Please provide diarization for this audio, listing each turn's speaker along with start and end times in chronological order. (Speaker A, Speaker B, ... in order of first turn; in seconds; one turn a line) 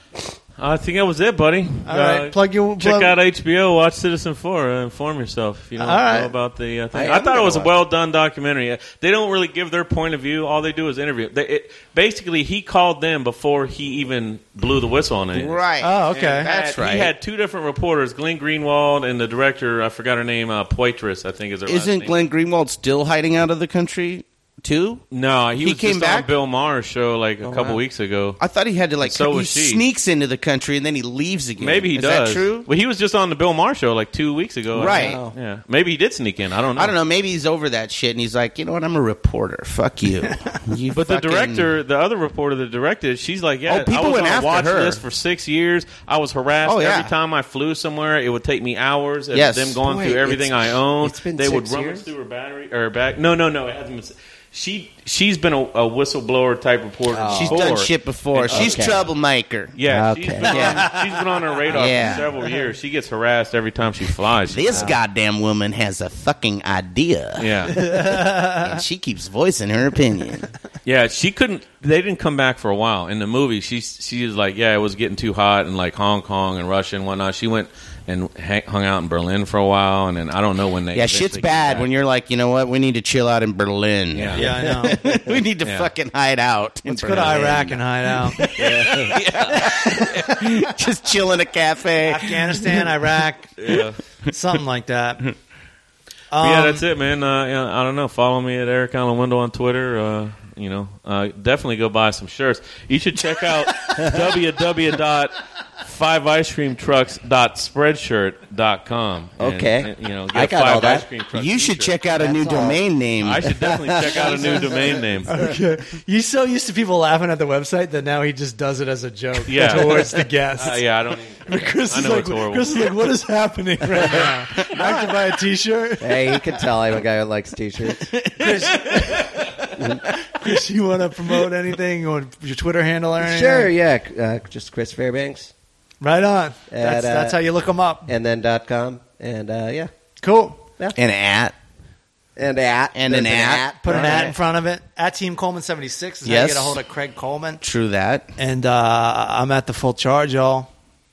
Speaker A: 0.6-22.1
Speaker B: 1.8-3.2
Speaker B: 5.8-6.3
Speaker C: 6.9-7.7
Speaker D: 15.3-17.1
Speaker B: 15.8-16.5
Speaker D: 21.6-25.1
Speaker A: 25.1-28.4
Speaker D: 25.6-26.3
Speaker C: 27.4-27.8
Speaker D: 28.4-32.7
Speaker A: 29.0-29.8
Speaker A: 31.6-36.9
Speaker D: 34.7-35.2
Speaker C: 34.9-35.4
Speaker D: 36.8-41.7
Speaker A: 40.9-59.0
Speaker D: 43.7-45.0
Speaker D: 46.6-47.1
Speaker D: 49.3-49.8
Speaker C: 49.8-52.0
Speaker C: 57.1-57.6
Speaker D: 57.3-59.7
Speaker C: 58.5-59.0
Speaker A: 59.7-65.0
Speaker C: 59.8-60.9
Speaker D: 60.5-60.9
Speaker D: 61.7-62.3
Speaker D: 64.5-70.5
Speaker C: 64.7-65.0
Speaker A: 67.4-67.9
Speaker B: 67.8-68.7
Speaker A: 70.8-81.9
Speaker D: 80.9-92.9
Speaker A: 84.1-84.5
Speaker B: 84.3-85.0
Speaker A: 85.6-85.9
Speaker B: 86.8-88.4
Speaker C: 88.5-89.2
Speaker B: 89.8-90.6
Speaker B: 92.0-93.7
Speaker A: 93.6-94.0
Speaker B: 94.2-95.3
Speaker B: 96.3-96.8
Speaker A: 96.4-112.0
Speaker C: 109.4-111.1
Speaker D: 111.3-113.5
Speaker C: 112.2-112.8
Speaker A: 113.2-115.3
Speaker C: 113.5-115.5
Speaker B: 115.2-120.8
Speaker A: 119.5-122.8
Speaker B: 121.4-126.2
Speaker C: 124.0-124.3
Speaker C: 126.0-128.1
Speaker D: 128.1-129.2
Speaker B: 128.4-129.2
Speaker B: 130.2-133.7
Speaker C: 133.2-135.5
Speaker B: 136.0-138.1
Speaker C: 136.7-137.4
Speaker C: 138.1-139.9
Speaker B: 140.2-140.6
Speaker D: 140.9-141.5
Speaker C: 142.4-144.3
Speaker D: 142.9-144.3
Speaker B: 143.8-147.6
Speaker D: 146.2-146.8
Speaker D: 147.6-148.3
Speaker B: 148.4-150.7